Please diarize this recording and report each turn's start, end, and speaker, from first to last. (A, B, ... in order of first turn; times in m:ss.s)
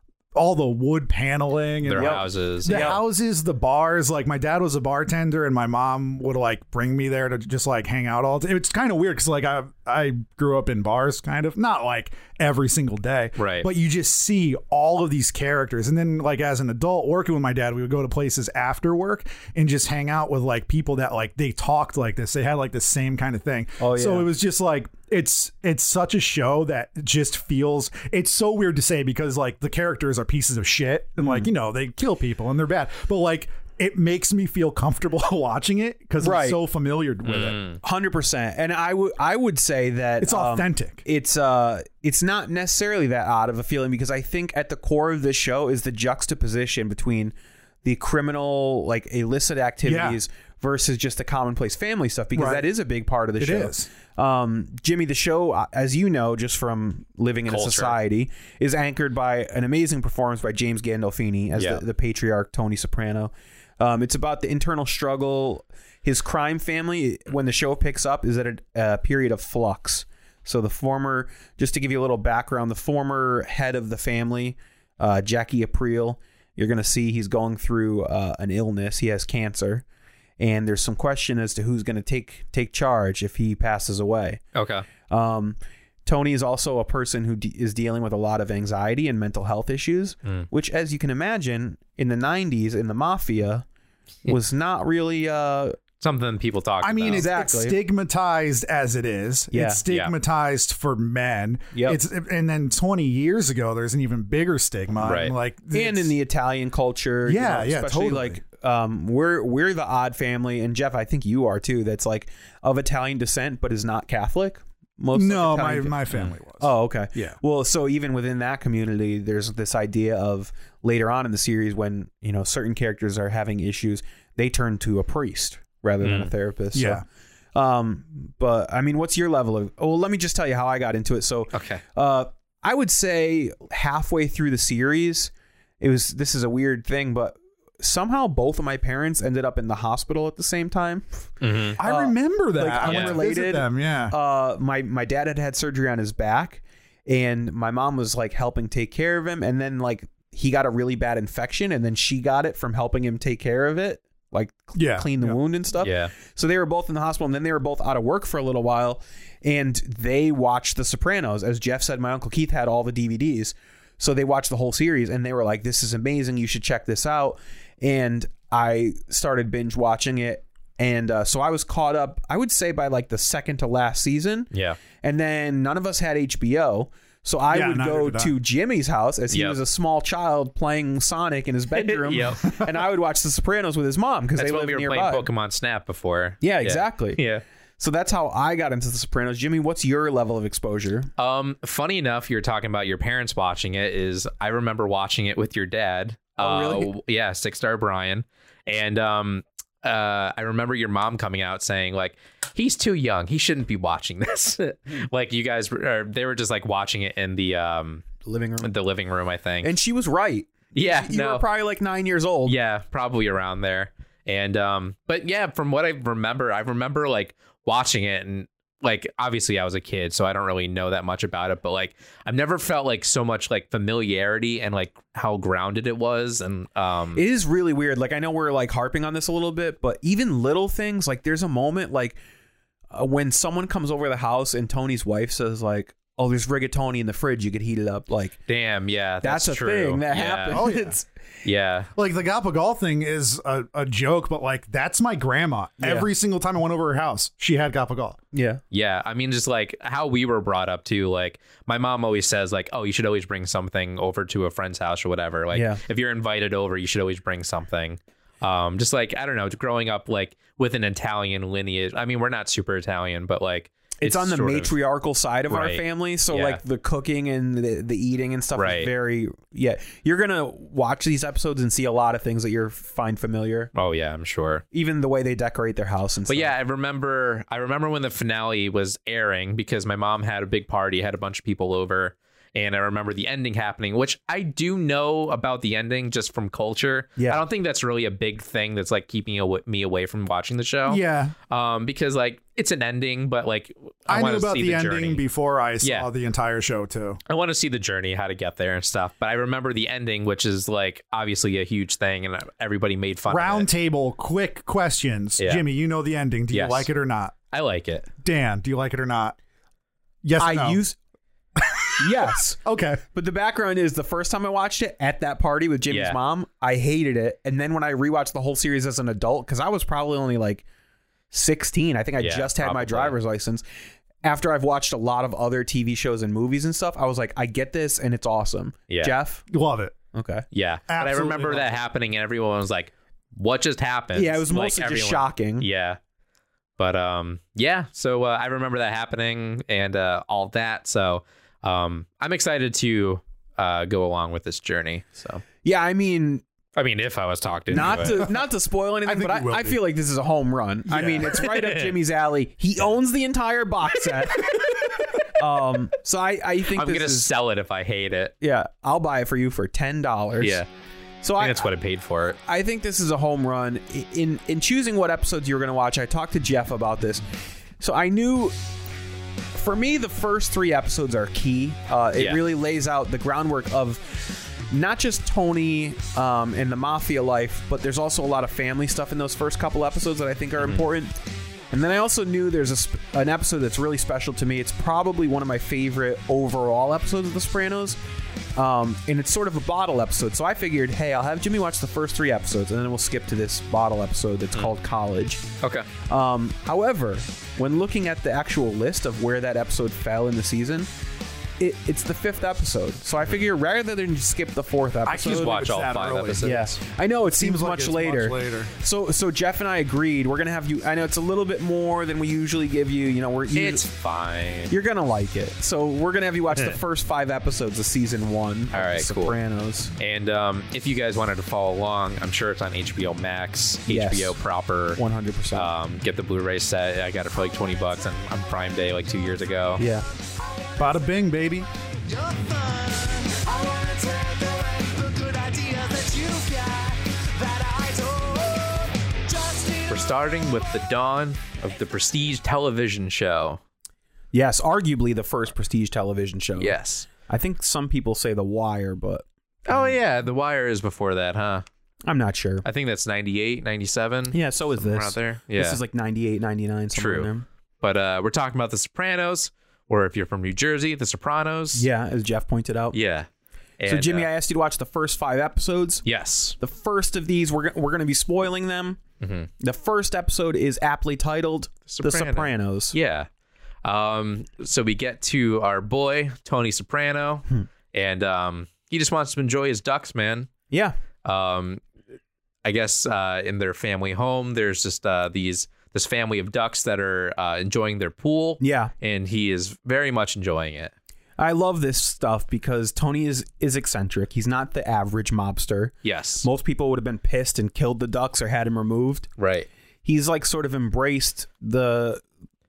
0:00.3-0:37.6 A
0:01.8-0:02.9 B
0:02.0-0:03.0 C
0:13.4-0:13.7 B
0:23.8-0:24.3 C
0:36.2-0:36.6 C
0:37.3-0:37.8 B
0:37.8-1:19.8 C
0:40.2-0:41.0 A
0:49.8-0:50.2 A
0:52.4-0:52.7 A
0:53.4-0:53.9 A
0:57.5-0:58.0 B
1:01.6-1:01.8 B
1:20.4-1:24.4 C
1:24.6-1:24.9 B
1:25.1-1:33.6 C
1:34.3-1:35.8 C
1:36.0-1:37.3 B
1:36.8-1:46.1 A
1:37.0-1:37.8 C
1:39.5-1:39.8 C
1:39.9-1:40.1 B
1:41.7-1:42.0 C
1:45.0-1:45.4 B
1:45.7-1:56.0 C
1:47.3-1:48.4 A
1:55.1-1:57.4 A
1:56.6-2:07.0 C
2:06.0-2:06.3 B
2:06.7-2:07.0 A
2:07.6-3:05.3 C
2:11.5-2:11.8 B
2:21.4-2:21.8 B
2:21.8-2:24.2 A
2:22.9-2:23.2 B
2:34.8-2:35.4 A
2:35.8-2:36.1 B
2:54.5-2:54.8 B
2:57.5-2:58.3 A
2:59.3-2:59.6 B
3:01.8-3:02.7 B
3:04.4-3:07.4 B
3:06.4-3:07.2 C
3:07.8-3:11.1 C
3:11.2-3:28.1 B
3:16.4-3:16.9 C
3:28.2-3:28.7 C
3:28.6-3:29.8 B
3:29.6-3:32.6 C
3:30.8-3:31.4 B
3:32.5-3:47.2 B
3:47.2-3:52.2 C
3:52.9-3:58.4 C
3:58.5-4:00.6 B
3:59.2-4:01.1 C
4:00.5-4:01.0 A
4:01.4-4:01.9 B
4:02.0-4:08.2 A
4:05.8-4:06.1 C
4:08.3-4:08.6 C
4:08.7-4:24.8 B
4:15.5-4:15.8 C
4:24.0-4:33.7 C
4:25.5-4:26.6 B
4:28.6-4:28.9 B
4:33.7-4:34.6 B
4:34.7-4:36.5 C
4:36.3-4:55.2 B
4:50.9-4:51.3 A
4:54.1-4:57.2 A
4:55.8-4:56.1 B
4:57.3-5:03.7 B
5:03.3-5:07.3 A
5:05.4-5:05.6 B
5:06.5-5:06.9 B
5:07.5-5:08.1 B
5:08.2-5:09.4 A
5:10.2-5:10.8 A
5:10.4-5:11.0 C
5:11.6-5:13.0 A
5:12.0-5:12.6 C
5:13.1-5:20.6 C
5:15.9-5:16.2 B
5:21.3-5:23.6 C
5:22.2-5:23.2 B
5:24.2-5:29.4 C
5:28.9-5:29.1 B
5:29.5-5:30.0 A
5:30.1-5:30.4 C
5:30.5-5:36.0 B
5:30.9-5:31.7 A
5:34.1-5:35.7 C
5:36.8-5:45.4 B
5:45.6-5:46.4 C
5:46.8-5:48.3 B
5:47.7-5:57.3 C
5:49.1-5:49.8 A
5:50.9-5:52.0 B
5:56.7-5:58.4 B
5:58.4-6:00.6 C
6:00.4-6:00.7 B
6:01.2-6:01.7 C
6:01.4-6:02.4 B
6:02.4-6:07.2 C
6:07.8-6:08.6 C
6:09.5-6:21.2 C
6:12.2-6:12.4 B
6:20.6-6:20.8 B
6:21.7-6:28.0 C
6:28.6-6:35.5 C
6:35.6-6:35.9 B
6:36.1-6:40.9 C
6:41.6-6:45.6 C
6:45.0-6:46.6 A
6:45.2-6:46.7 B
6:46.4-6:53.8 C
6:47.4-6:48.7 A
6:53.6-6:54.7 B
6:54.7-6:59.9 C
6:58.7-6:59.4 B
7:00.0-7:05.0 B
7:03.9-7:04.4 C
7:05.0-7:05.7 C
7:05.5-7:09.8 B
7:09.8-7:10.1 C
7:10.4-7:11.1 D
7:10.8-7:11.7 A
7:12.0-7:20.6 D
7:19.9-7:23.6 B
7:24.3-7:30.0 C
7:26.6-7:27.1 B
7:29.7-7:31.6 B
7:32.0-7:32.6 C
7:32.6-7:35.8 B
7:34.3-7:37.5 C
7:37.0-7:41.9 B
7:41.8-7:43.0 C
7:42.9-7:43.3 B
7:43.8-7:44.3 B
7:43.8-7:46.0 C
7:46.0-7:46.6 B
7:46.6-7:49.0 C
7:49.2-7:49.5 B
7:49.6-7:53.0 C
7:51.9-7:53.3 B
7:53.8-8:00.5 B
8:00.7-8:01.0 C
8:01.2-8:01.8 B
8:02.6-8:10.9 B
8:08.6-8:08.9 C
8:11.4-8:19.3 C
8:16.0-8:16.5 B
8:19.4-8:19.7 B
8:20.0-8:22.2 C